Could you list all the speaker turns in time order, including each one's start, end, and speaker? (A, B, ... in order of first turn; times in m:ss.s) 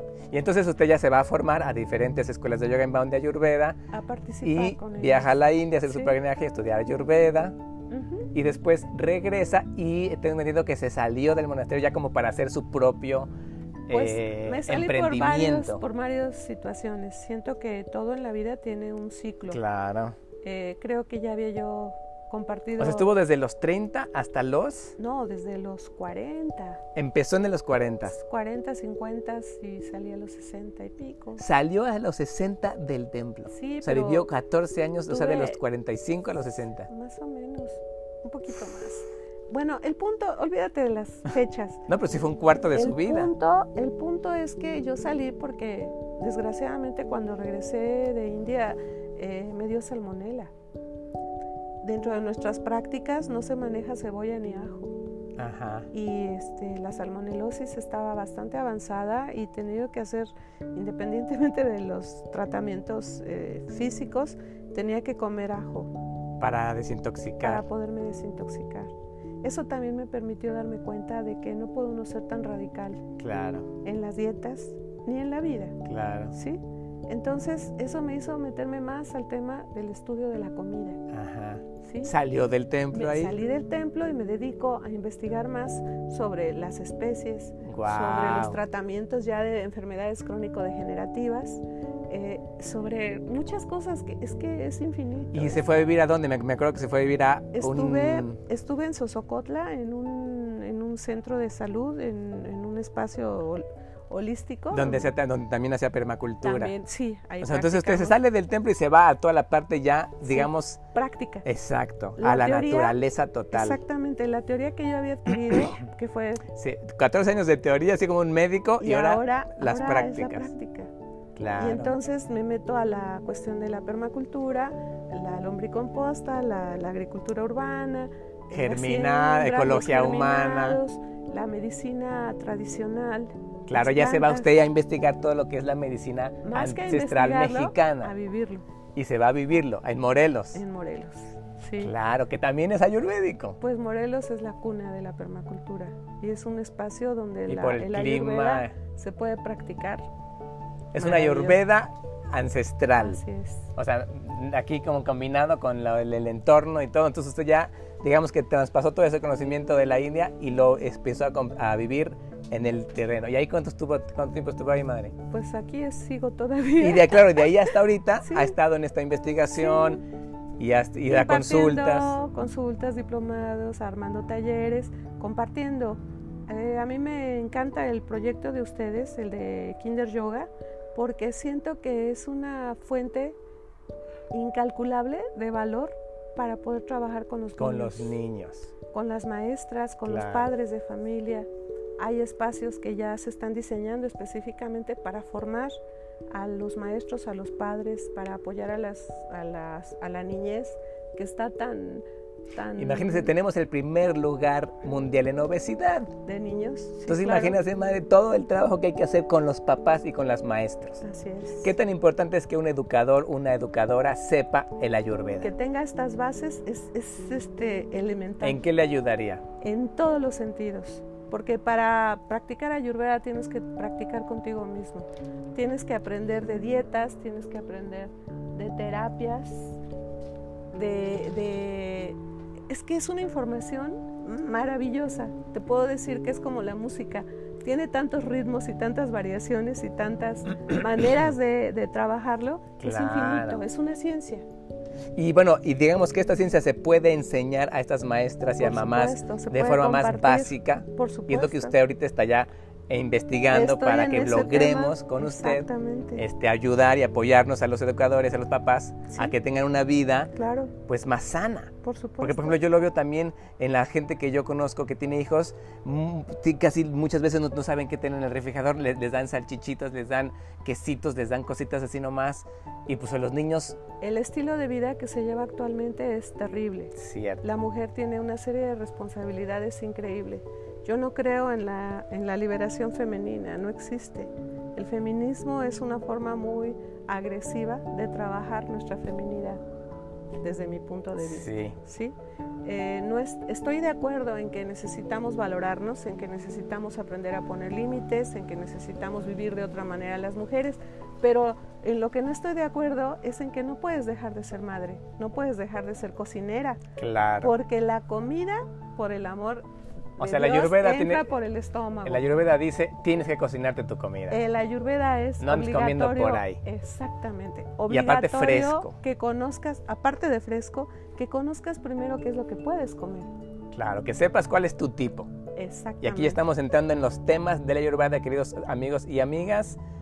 0:00.3-0:03.8 A
0:03.9-0:05.3 B
0:04.4-0:07.6 A
0:05.8-0:06.2 B
0:07.9-0:08.3 B
0:08.3-0:13.3 A
0:13.9-0:15.8 A
0:13.9-0:19.6 B
0:19.5-0:20.2 A
0:20.4-0:23.1 B
0:22.8-0:25.0 A
0:25.0-0:26.8 B
0:27.0-0:28.1 A
0:28.0-0:31.4 B
0:31.4-0:36.9 A
0:33.5-0:34.3 B
0:35.1-0:35.6 B
0:36.9-0:41.8 B
0:41.9-0:43.3 A
0:42.7-0:50.5 B
0:51.8-0:55.0 B
0:55.4-0:55.9 A
0:55.9-1:05.9 B
1:06.4-1:07.7 A
1:07.4-1:13.1 B
1:13.2-1:13.7 A
1:13.8-1:15.8 B
1:15.8-1:16.3 A
1:16.3-1:21.0 B
1:21.1-1:23.4 A
1:21.8-1:22.1 B
1:22.9-1:35.6 B
1:27.6-1:28.6 A
1:35.3-1:38.4 A
1:37.5-1:45.1 B
1:44.7-1:46.7 A
1:46.4-1:48.2 B
1:47.4-1:50.8 A
1:50.2-1:51.4 B
1:51.4-1:53.8 A
1:52.2-1:53.0 B
1:53.5-1:56.4 B
1:56.5-2:00.5 A
1:58.8-2:00.9 B
2:01.4-2:02.0 A
2:01.5-2:14.5 B
2:08.5-2:10.8 A
2:13.7-2:18.1 A
2:16.4-2:18.6 B
2:18.9-2:20.6 A
2:20.5-2:21.9 B
2:21.8-2:23.6 A
2:23.6-2:30.1 B
2:27.5-2:28.7 A
2:30.9-2:33.2 A
2:31.0-2:31.6 B
2:33.0-2:33.7 B
2:33.8-2:45.1 A
2:45.3-2:48.6 B
2:46.8-2:50.0 A
2:49.5-2:50.0 B
2:50.6-2:52.2 A
2:51.0-3:03.4 B
3:04.3-3:08.2 B
3:07.6-3:08.7 A
3:08.9-3:15.8 B
3:10.0-3:10.5 A
3:16.3-3:23.3 B
3:22.8-3:26.1 A
3:26.2-3:27.6 B
3:27.1-3:31.0 A
3:31.0-3:31.7 B
3:31.6-3:35.5 A
3:35.4-3:38.6 B
3:38.4-3:39.4 A
3:39.6-3:49.8 B
3:50.7-3:52.2 B
3:52.7-4:04.4 B
4:02.8-4:03.6 A
4:05.1-4:20.3 A
4:08.6-4:11.7 B
4:13.5-4:16.2 B
4:20.4-4:20.7 B
4:20.9-4:33.8 A
4:21.8-4:22.6 B
4:34.0-4:49.6 B
4:37.0-4:37.4 A
4:50.4-5:06.8 B
4:51.2-4:51.8 A
5:07.0-5:07.5 A
5:07.4-5:09.7 B
5:10.2-5:11.3 A
5:10.2-5:12.3 B
5:12.0-5:14.4 A
5:14.3-5:23.3 B
5:15.4-5:16.6 A
5:17.9-5:18.9 A
5:23.7-5:25.3 A
5:25.6-5:26.4 B
5:26.0-5:29.8 A